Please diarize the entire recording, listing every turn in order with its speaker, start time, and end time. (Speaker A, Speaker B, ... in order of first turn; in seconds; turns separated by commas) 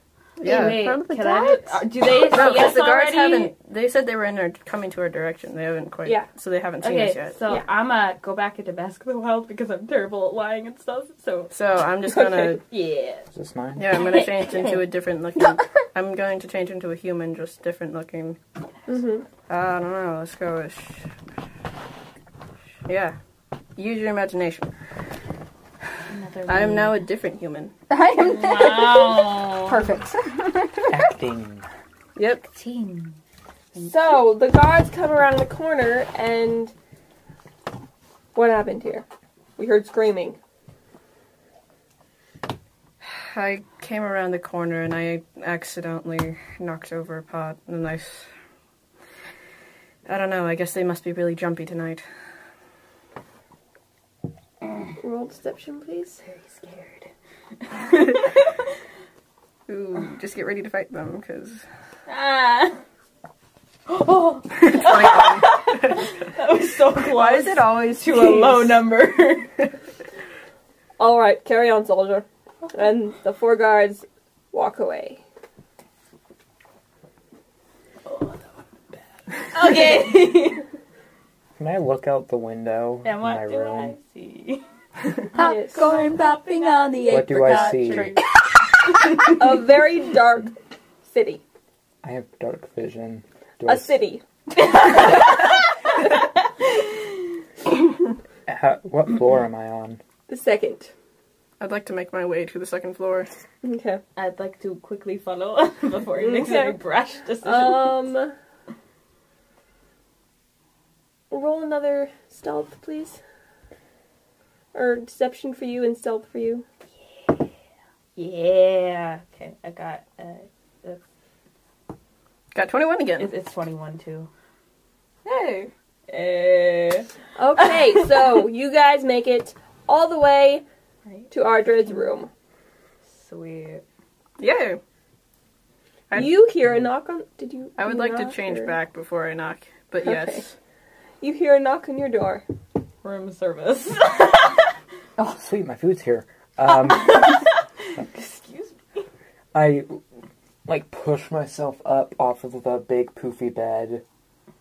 Speaker A: 0.4-1.0, Speaker B: 0.4-3.5, Speaker C: 0.6-1.6, Speaker A: 2.2-7.4, Speaker B: 6.8-11.5, Speaker A: 11.5-12.6, Speaker D: 12.1-12.6, Speaker B: 12.7-13.3, Speaker E: 13.3-14.1, Speaker A: 13.8-18.4, Speaker B: 13.9-14.8, Speaker D: 18.9-19.2, Speaker A: 19.5-21.1, Speaker A: 22.9-23.2, Speaker A: 23.8-24.7, Speaker B: 26.1-27.0, Speaker A: 26.5-27.7, Speaker C: 27.9-31.1, Speaker B: 28.2-29.9, Speaker E: 30.9-31.7, Speaker A: 32.2-32.5, Speaker B: 32.5-33.2, Speaker B: 33.8-34.2, Speaker D: 33.8-36.7, Speaker D: 38.4-39.0, Speaker D: 39.6-40.4, Speaker A: 43.0-48.3, Speaker A: 50.1-52.0, Speaker D: 55.0-56.2, Speaker B: 56.2-57.1, Speaker B: 57.6-58.5, Speaker A: 59.7-61.6, Speaker B: 62.1-62.8, Speaker B: 63.9-69.5, Speaker A: 64.6-66.0, Speaker A: 67.0-68.8, Speaker D: 71.0-75.2, Speaker B: 78.1-78.4, Speaker B: 79.5-80.6, Speaker E: 81.6-84.0, Speaker B: 83.0-84.6, Speaker C: 85.3-88.1, Speaker D: 85.3-86.0, Speaker B: 85.8-88.2, Speaker E: 87.0-88.2, Speaker D: 89.2-91.4, Speaker E: 92.0-94.0, Speaker D: 93.7-94.2, Speaker B: 94.6-95.7, Speaker B: 96.6-97.1, Speaker E: 98.5-100.0, Speaker D: 100.3-100.9, Speaker A: 101.6-103.3, Speaker D: 103.6-104.0, Speaker B: 104.2-108.1, Speaker D: 106.2-106.8, Speaker D: 107.4-108.3, Speaker D: 111.3-113.2, Speaker D: 114.7-116.7, Speaker B: 118.2-121.0, Speaker A: 122.5-123.3, Speaker B: 123.2-124.3, Speaker A: 125.2-125.7, Speaker B: 126.1-128.4, Speaker D: 127.4-130.6, Speaker B: 131.1-132.2, Speaker D: 131.3-132.3, Speaker B: 133.1-133.8, Speaker A: 134.4-134.8, Speaker D: 136.1-138.8, Speaker A: 137.8-140.5, Speaker D: 140.0-140.4, Speaker D: 141.2-142.4, Speaker B: 143.0-144.7, Speaker E: 145.2-147.4, Speaker B: 146.7-149.0, Speaker E: 149.5-150.0, Speaker E: 150.7-154.0